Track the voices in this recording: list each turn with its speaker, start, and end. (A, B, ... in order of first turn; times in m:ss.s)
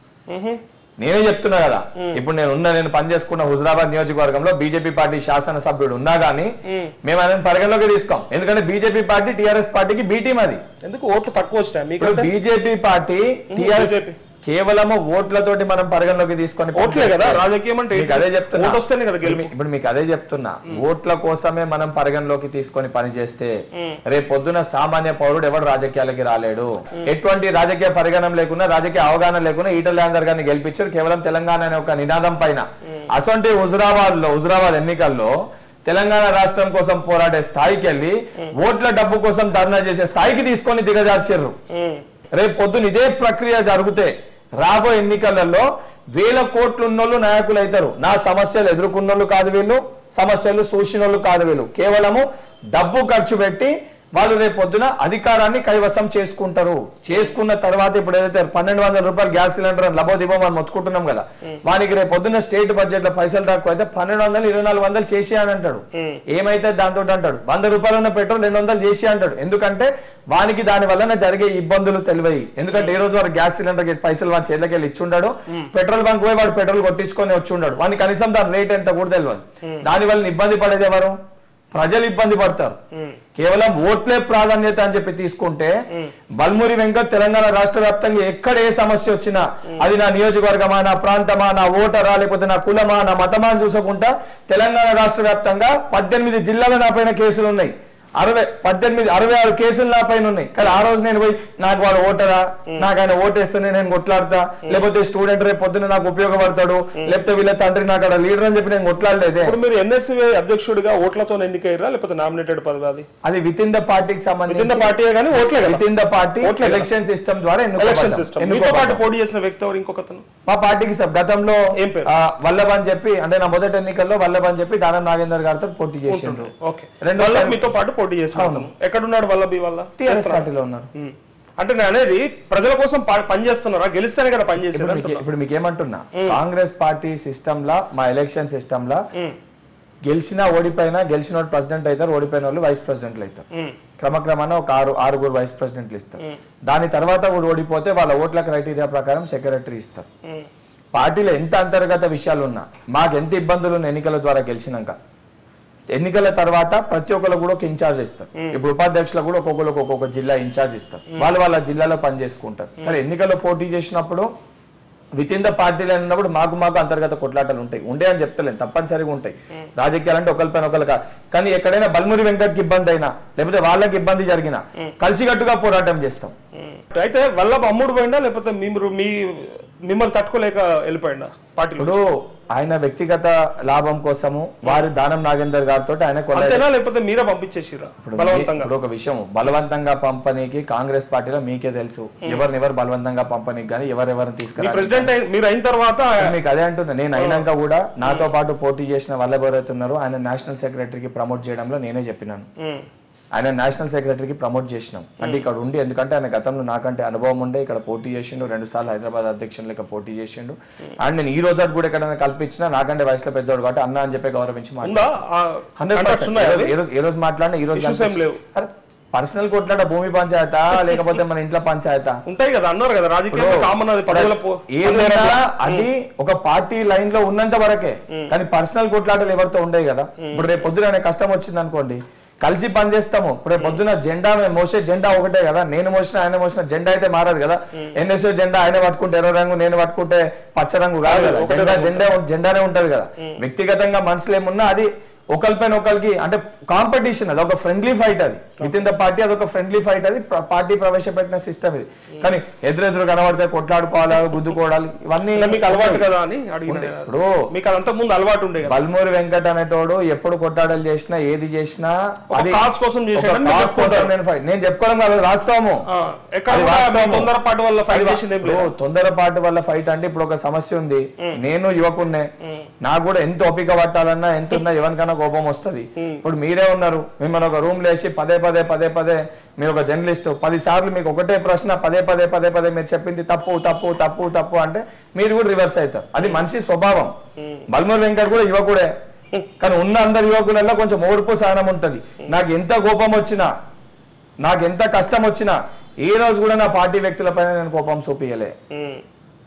0:00.3-0:00.6 A
0:01.0-0:06.5 B
0:07.0-0:10.6 B
0:10.8-0:12.3 A
0:12.0-0:23.5 B
0:13.5-0:14.2 A
0:16.8-0:19.5 A
0:24.1-0:35.3 B
0:35.9-0:41.6 B
0:41.7-0:42.0 A
0:42.4-1:21.2 B
1:12.7-1:13.0 A
1:21.7-1:22.8 B
1:23.4-1:25.8 B
1:26.4-1:49.6 B
1:49.4-1:53.1 A
1:53.2-1:54.9 B
1:54.5-1:55.8 A
1:55.5-1:59.0 B
1:56.4-1:56.9 A
1:57.8-2:00.2 A
2:00.5-2:01.6 B
2:01.8-2:02.1 A
2:02.1-2:07.7 B
2:06.1-2:15.2 A
2:08.3-2:08.7 B
2:10.0-2:10.9 B
2:14.6-2:19.0 B
2:16.2-2:16.4 A
2:20.1-2:23.4 B
2:24.0-2:30.1 B
2:30.9-2:35.0 B
2:36.0-2:44.3 B
2:45.2-2:56.3 B
2:56.6-3:02.0 A
3:01.8-3:06.6 B
3:06.3-3:08.7 A
3:08.0-3:15.1 B
3:14.6-3:16.3 A
3:16.2-3:22.5 B
3:17.2-3:17.5 A
3:18.0-3:18.3 A
3:23.4-3:35.1 B
3:34.8-3:36.8 A
3:35.8-3:42.2 B
3:37.7-3:38.4 A
3:42.3-3:45.9 A
3:43.3-4:16.1 B
3:50.2-3:50.6 A
4:01.0-4:02.1 A
4:15.4-4:18.8 A
4:16.7-4:17.4 B
4:18.6-4:22.6 B
4:22.3-4:24.1 A
4:23.2-4:25.8 B
4:25.9-4:28.7 A
4:26.5-4:27.3 B
4:27.9-4:32.3 B
4:32.8-4:47.1 B
4:47.7-4:48.9 B
4:49.6-4:53.5 B
4:54.4-4:58.5 B
4:58.7-4:59.0 A